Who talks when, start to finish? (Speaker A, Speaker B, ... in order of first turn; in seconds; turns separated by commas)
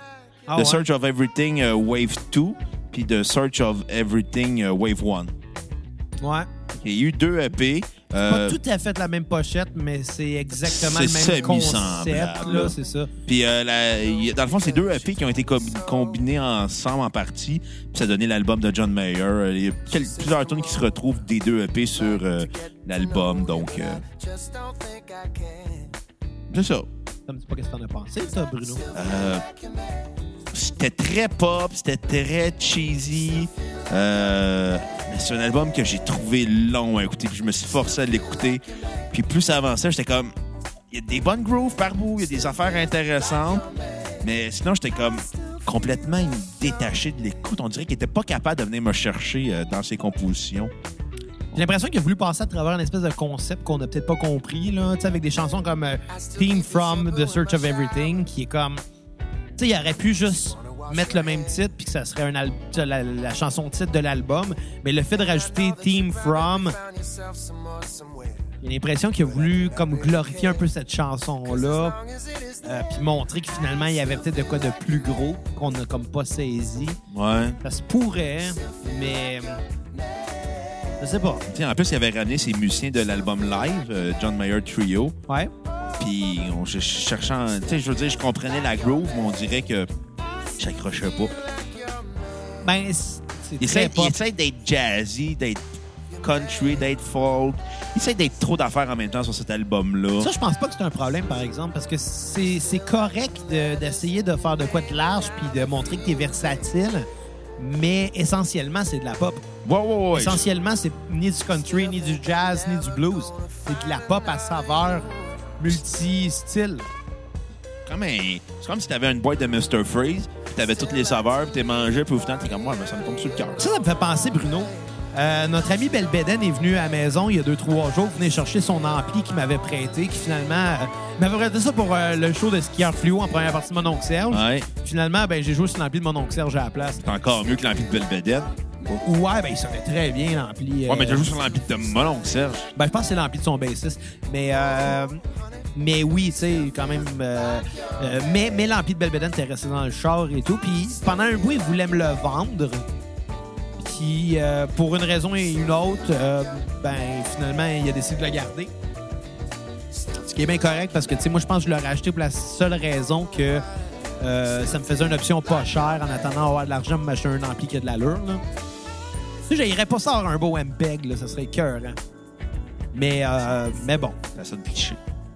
Speaker A: 0.5-0.9, Speaker B: 0.6-5.3, Speaker A: 6.2-6.5, Speaker B: 6.7-8.6, Speaker A: 8.3-13.1, Speaker B: 10.7-12.7, Speaker B: 13.3-24.0, Speaker C: 24.2-25.8, Speaker B: 26.5-26.9, Speaker A: 27.3-28.9, Speaker B: 28.9-29.4, Speaker B: 30.5-40.3, Speaker B: 40.9-43.7, Speaker B: 44.2-50.7, Speaker A: 51.5-58.8, Speaker A: 59.6-66.8, Speaker C: 67.0-68.3, Speaker A: 68.6-72.0, Speaker A: 72.6-77.0, Speaker B: 77.1-77.6, Speaker A: 77.6-79.6, Speaker A: 81.0-81.5, Speaker B: 81.5-85.2, Speaker B: 86.0-89.9, Speaker B: 90.6-91.3, Speaker A: 92.6-94.2, Speaker B: 93.6-95.7, Speaker B: 96.2-100.3, Speaker A: 100.2-107.1, Speaker A: 107.6-109.5, Speaker B: 109.7-110.4, Speaker A: 110.1-116.9, Speaker B: 117.9-123.6, Speaker A: 123.6-137.0, Speaker B: 134.3-134.7, Speaker B: 137.0-138.5, Speaker A: 138.9-141.3, Speaker B: 140.9-142.7, Speaker A: 142.8-145.2, Speaker A: 145.8-152.9, Speaker A: 153.8-158.7, Speaker A: 160.2-163.6, Speaker A: 164.2-168.4, Speaker A: 169.5-172.0, Speaker A: 172.9-174.2, Speaker B: 174.3-175.0